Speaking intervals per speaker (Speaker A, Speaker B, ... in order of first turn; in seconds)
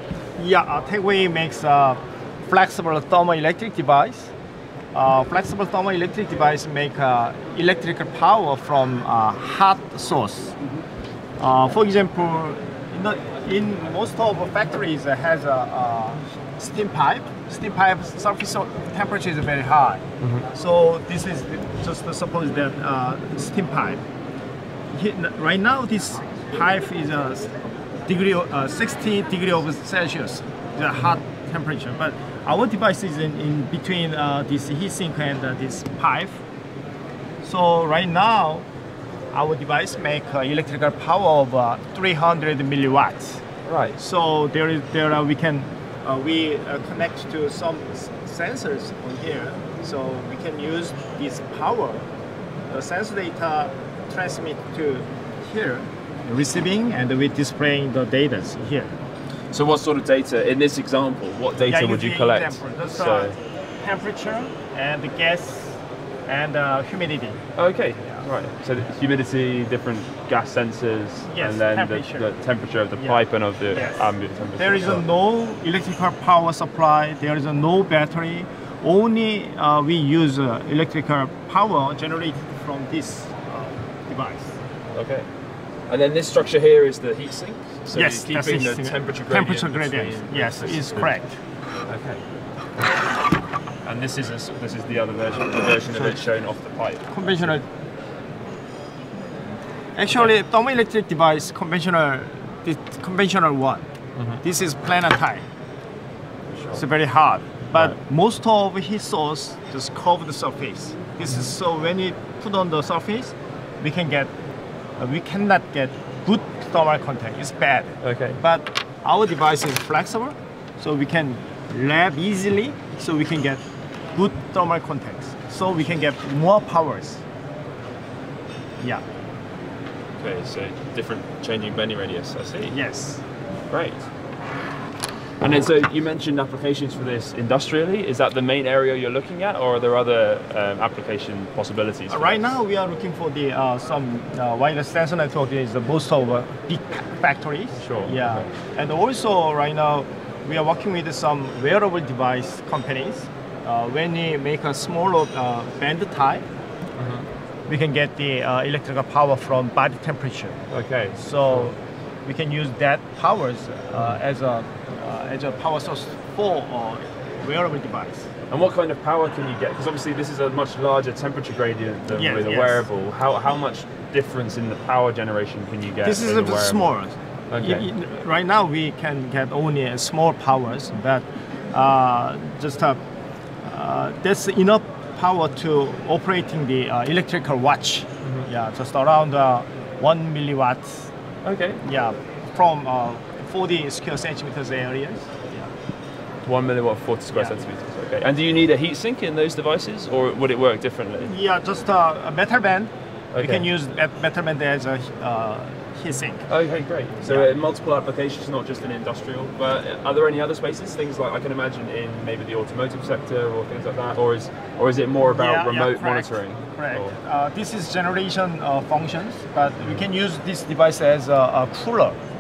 Speaker A: 0.4-4.3, 4.9-10.6, 11.4-24.0, 24.9-27.5, 28.1-36.4, 37.4-38.7, 39.3-43.4, 44.0-52.1, 52.7-58.9, 61.7-67.4, 71.3-72.3, 73.0-84.6, 87.9-91.4, 97.1-97.7, 100.0-103.9, 104.4-105.4, 106.7-114.3, 115.0-123.6, 124.2-127.2, 132.7-133.2, 142.1-156.5, 157.7-160.6, 161.2-168.3, 172.1-172.8, 176.0-183.0, 183.6-191.1, 191.8-195.7, 201.2-206.5, 207.2-207.5, 215.3-222.2
Speaker B: 20.2-20.5, 43.7-44.0, 59.5-63.4, 67.6-75.0, 84.9-85.3, 85.9-91.1, 91.9-92.2, 93.8-97.6, 106.5-106.8, 118.0-118.4, 130.2-132.8, 133.7-134.1, 135.4-142.6, 147.8-148.5, 157.0-157.3, 160.7-161.7, 168.5-176.9, 177.5-177.9, 191.4-191.8, 196.5-201.3, 203.3-203.7, 206.5-217.1